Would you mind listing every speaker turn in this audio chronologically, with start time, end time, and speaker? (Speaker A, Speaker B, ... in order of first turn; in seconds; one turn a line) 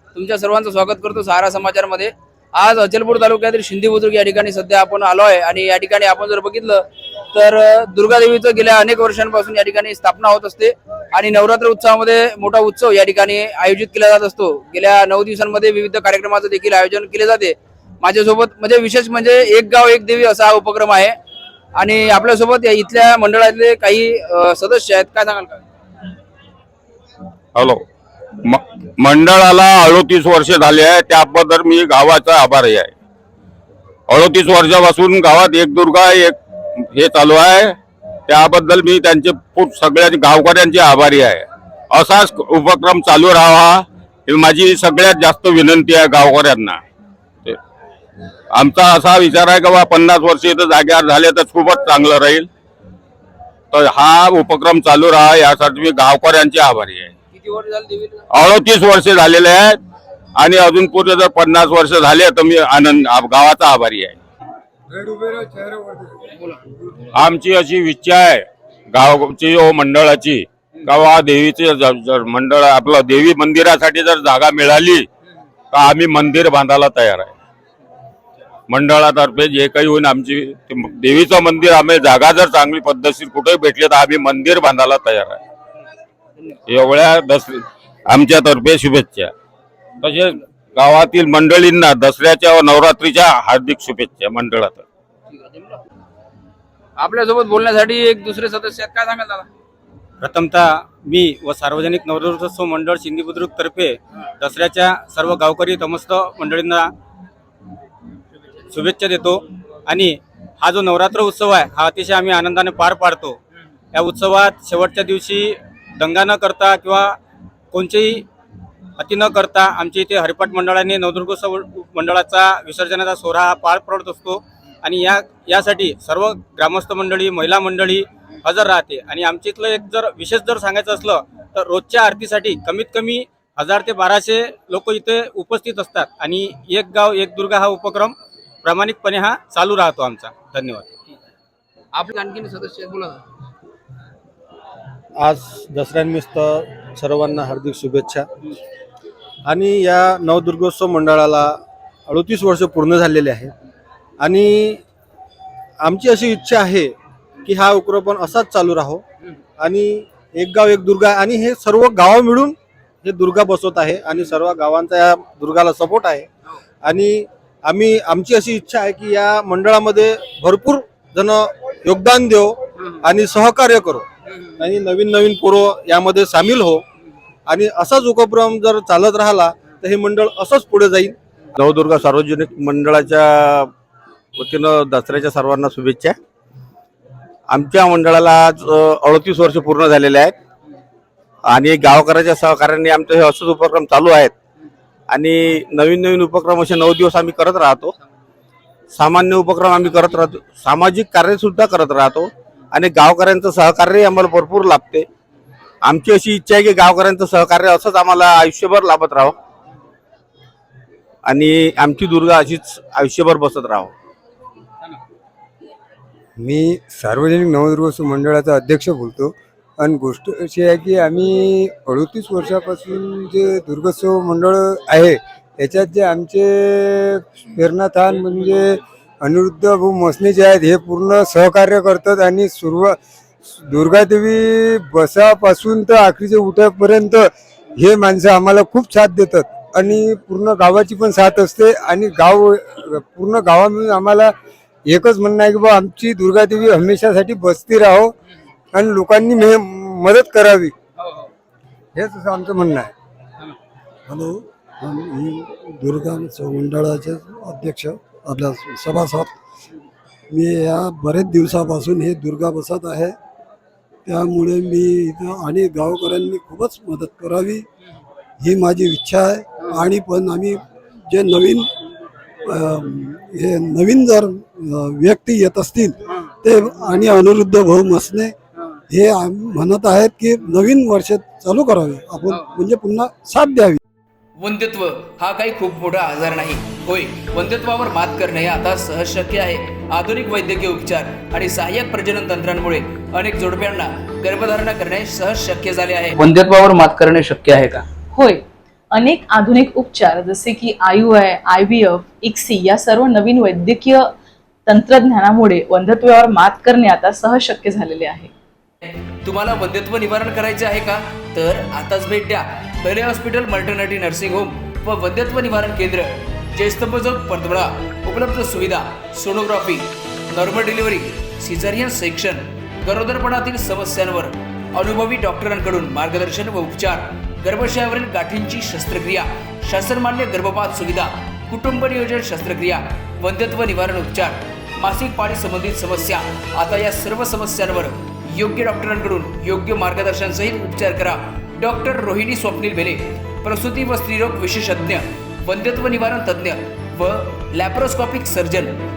Speaker A: 0.2-2.1
Speaker A: 2.6-6.6
Speaker B: 3.2-3.5
Speaker A: 7.3-21.1
Speaker A: 21.8-25.6
Speaker C: 27.6-27.8
Speaker C: 28.4-32.9
Speaker C: 34.1-36.4
Speaker C: 36.9-37.8
Speaker C: 38.3-46.8
Speaker C: 48.5-52.5
Speaker C: 53.7-57.1
Speaker A: 57.3-58.2
Speaker C: 58.3-59.8
Speaker C: 60.4-64.2
Speaker D: 64.9-66.5
Speaker C: 67.1-75.1
Speaker C: 75.7-77.3
Speaker C: 78.7-85.4
Speaker C: 86.7-89.3
Speaker C: 90.0-94.8
Speaker A: 97.0-99.5
Speaker B: 100.2-106.9
Speaker B: 108.7-113.4
Speaker B: 113.9-117.2
Speaker B: 117.7-118.2
Speaker B: 119.0-140.9
Speaker A: 142.0-143.2
Speaker E: 145.2-148.3
Speaker E: 149.4-153.5
Speaker E: 154.2-154.8
Speaker E: 155.8-156.9
Speaker E: 157.4-159.0
Speaker E: 159.6-166.3
Speaker E: 166.8-174.1
Speaker E: 174.6-176.8
Speaker E: 177.5-181.2
Speaker F: 181.5-183.7
Speaker F: 184.3-186.2
Speaker F: 187.5-190.4
Speaker F: 191.4-194.3
Speaker F: 195.1-197.9
Speaker F: 198.9-205.1
Speaker F: 205.8-209.3
Speaker F: 211.2-213.9
Speaker D: 216.4-232.9
Speaker D: 233.6-244.3
Speaker D: 244.9-248.1
Speaker D: 248.7-250.7
Speaker D: 251.9-252.9
Speaker G: 254.1-259.3
Speaker G: 260.3-263.1
Speaker G: 264.1-267.6
Speaker G: 268.5-270.6
Speaker G: 271.1-271.6
Speaker G: 272.5-278.3
Speaker G: 278.9-283.8
Speaker A: 284.4-296.2
Speaker B: 296.3-297.8
Speaker H: 298.1-304.1
Speaker H: 304.6-308.3
Speaker A: 309.2-348.8